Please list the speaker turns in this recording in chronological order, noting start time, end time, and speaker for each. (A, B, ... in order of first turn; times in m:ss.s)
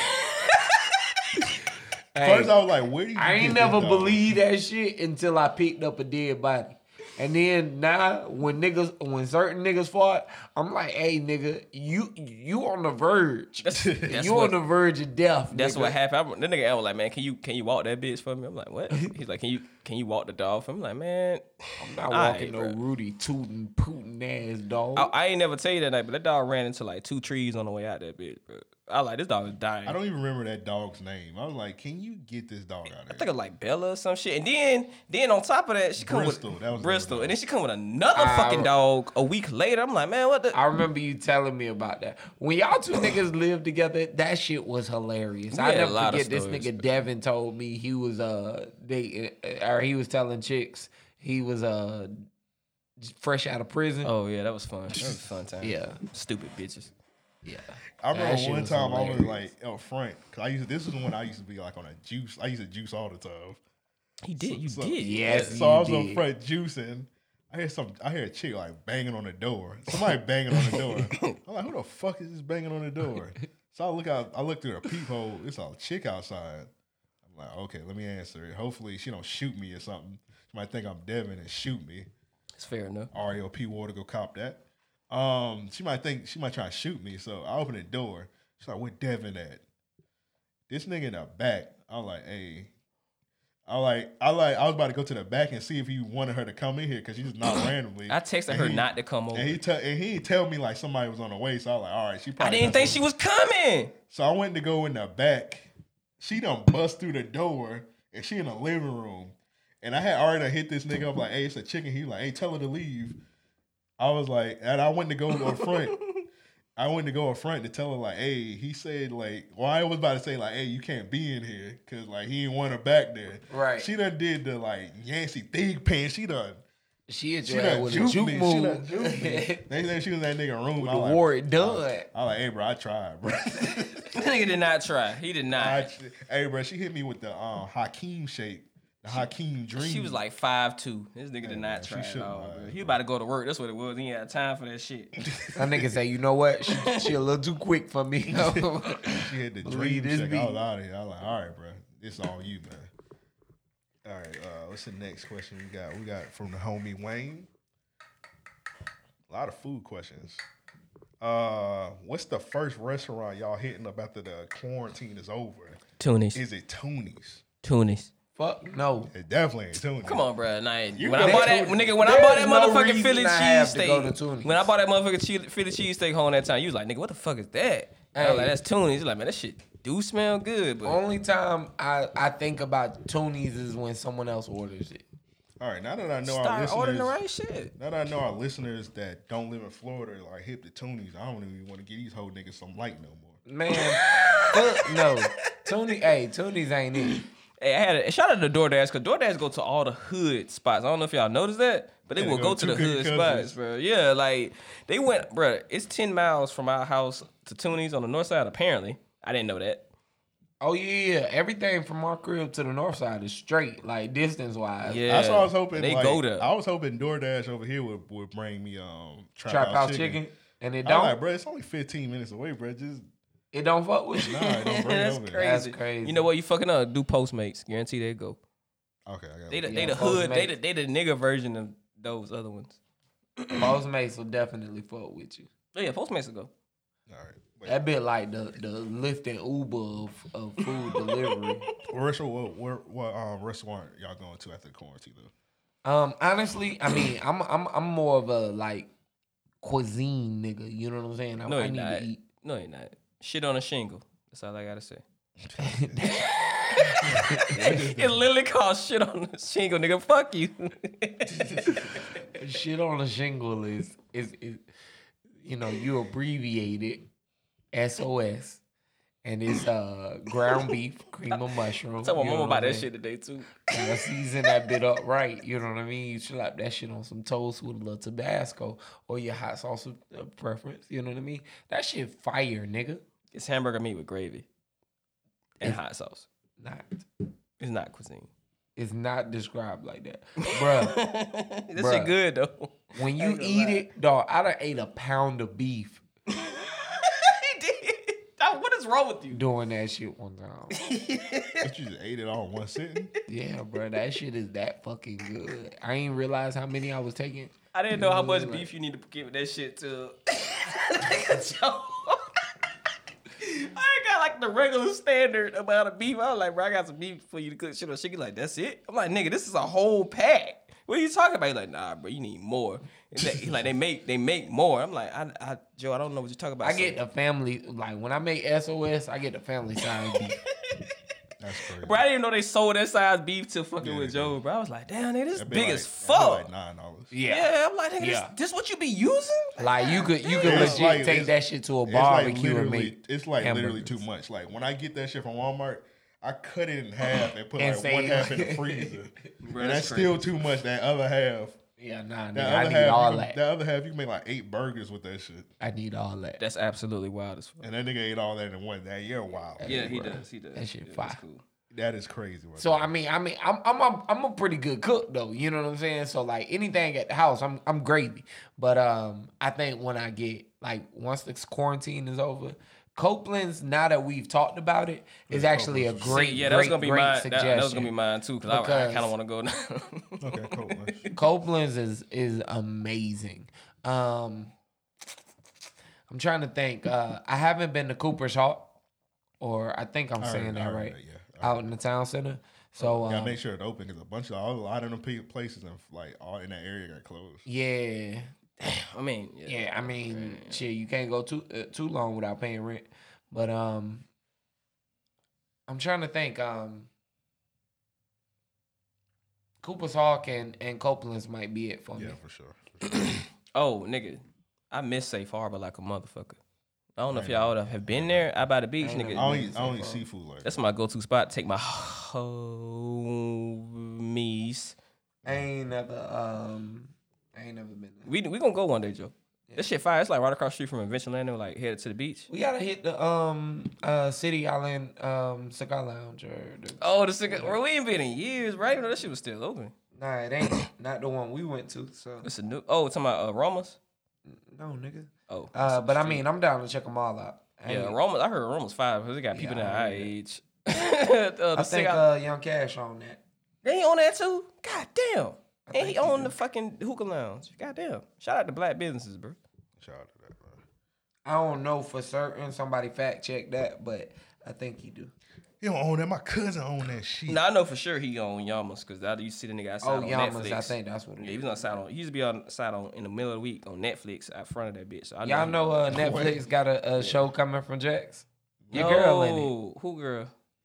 0:02.2-0:02.6 A
0:02.2-0:04.4 B
0:03.2-0:16.0 A
0:13.6-0:14.6 C
0:15.5-0:22.8 C
0:21.8-0:25.1 A
0:25.0-0:30.0 C
0:29.9-0:33.3 B
0:33.1-0:40.6 C
0:36.0-0:37.4 B
0:38.2-0:38.7 A
0:40.5-0:52.2 A
0:45.5-0:46.9 C
0:53.0-0:54.1 A
0:54.0-0:56.9 C
0:55.0-0:55.3 B
0:55.6-0:56.0 A
0:57.4-0:59.5 A
0:58.0-1:03.6 B
1:04.2-1:05.6 C
1:04.4-1:16.7 B
1:05.0-1:06.2 A
1:10.7-1:11.4 C
1:17.2-1:22.1 B
1:22.6-1:23.1 C
1:23.1-1:29.6 B
1:30.7-1:32.7 B
1:33.7-1:43.0 B
1:38.1-1:39.6 C
1:42.4-1:43.9 C
1:44.1-1:53.2 B
1:54.0-1:56.0 B
1:55.5-1:56.0 C
1:56.8-2:06.6 B
2:03.5-2:03.9 A
2:07.1-2:09.7 A
2:07.4-2:14.1 B
2:10.8-2:12.1 A
2:14.1-2:15.9 C
2:15.5-2:20.2 B
2:19.8-2:25.2 C
2:21.4-2:23.0 B
2:25.3-2:25.9 B
2:25.6-2:30.6 A
2:28.3-2:32.9 B
2:34.0-2:37.5 B
2:39.3-2:40.4 B
2:41.2-2:45.8 B
2:46.0-2:46.4 C
2:46.3-2:47.4 B
2:47.6-2:48.1 C
2:48.4-2:49.1 A
2:49.1-2:50.3 B
2:50.0-3:01.0 C
2:51.0-2:52.0 B
2:51.2-2:54.7 A
2:58.1-2:58.6 A
3:00.8-3:05.0 A
3:05.6-3:07.2 B
3:06.2-3:07.7 C
3:07.8-3:13.4 B
3:13.5-3:17.2 A
3:13.7-3:15.7 C
3:17.1-3:29.9 C
3:22.1-3:23.6 B
3:30.6-3:35.2 A
3:34.8-3:36.5 C
3:35.1-3:40.2 B
3:39.5-3:41.2 A
3:40.8-3:43.1 B
3:43.5-3:44.5 A
3:44.2-3:45.4 B
3:44.6-3:48.4 C
3:45.4-3:46.3 A
3:49.1-3:50.0 B
3:49.5-3:52.8 C
3:49.7-3:50.5 A
3:53.6-3:55.5 A
3:55.8-3:56.5 C
3:57.1-3:57.8 B
3:57.6-4:01.7 A
4:01.9-4:05.3 B
4:05.8-4:08.9 A
4:09.6-4:12.2 A
4:11.5-4:15.0 C
4:15.5-4:16.2 B
4:15.6-4:16.2 A
4:16.0-4:21.8 C
4:16.8-4:17.6 A
4:17.0-4:18.3 B
4:22.3-4:24.6 A
4:25.4-4:27.1 A
4:27.7-4:28.6 A
4:29.2-4:32.9 A
4:32.0-4:34.1 C
4:33.7-4:43.0 A
4:43.3-4:44.5 C
4:45.6-4:46.3 C
4:46.6-4:47.0 A
4:47.6-4:48.3 C
4:48.8-4:51.0 A
4:50.4-4:53.9 C
4:51.8-4:52.1 A
4:53.0-4:56.0 A
4:56.3-4:59.4 C
4:59.3-5:00.8 A
5:00.8-5:01.7 C
5:01.6-5:03.1 B
5:03.3-5:08.7 A
5:07.7-5:12.3 C
5:13.4-5:27.0 C
5:23.2-5:23.6 B
5:26.6-5:30.4 A
5:30.7-5:30.9 C
5:31.4-5:32.0 B
5:31.8-5:36.5 C
5:33.8-5:34.4 B
5:35.4-5:37.1 B
5:37.1-5:38.3 A
5:37.3-5:40.9 C
5:39.6-5:44.0 A
5:40.4-5:51.6 B
5:47.6-5:49.0 A
5:49.4-5:50.3 C
5:51.8-5:53.4 A
5:52.3-5:55.5 B
5:55.6-5:56.4 A
5:56.4-5:57.6 C
5:57.6-5:59.9 B
5:59.6-6:01.2 A
5:59.6-6:01.4 C
6:01.7-6:02.9 B
6:02.6-6:17.9 A
6:15.3-6:16.2 B
6:16.1-6:21.1 C
6:18.5-6:19.1 A
6:20.2-6:21.1 B
6:21.1-6:24.5 A
6:26.1-6:28.7 A
6:29.4-6:33.4 A
6:30.2-6:31.7 B
6:33.0-6:37.4 B
6:37.4-6:38.3 A
6:38.6-6:40.7 C
6:39.5-6:44.0 A
6:45.7-6:46.9 A
6:49.6-6:52.2 A
6:52.0-6:52.8 B
6:52.9-6:56.4 C
6:57.0-6:59.5 C
6:57.1-6:58.3 B
6:58.8-7:00.1 A
6:59.1-7:00.6 B
7:00.4-7:04.8 C
7:05.2-7:08.1 A
7:08.1-7:12.3 C
7:12.3-7:17.6 A
7:16.8-7:19.7 C
7:20.0-7:22.3 A
7:22.2-7:23.8 C
7:24.3-7:28.0 A
7:25.3-7:26.2 C
7:27.7-7:32.0 C
7:29.3-7:30.1 A
7:31.6-7:33.2 A
7:33.6-7:39.4 C
7:35.7-7:36.4 A
7:39.8-7:40.6 B
7:41.2-7:45.1 A
7:45.6-7:47.4 B
7:47.3-7:56.1 C
7:49.8-7:51.8 A
7:55.2-7:59.5 A
7:55.9-7:56.4 B
7:58.6-7:58.9 B
7:58.7-8:00.3 C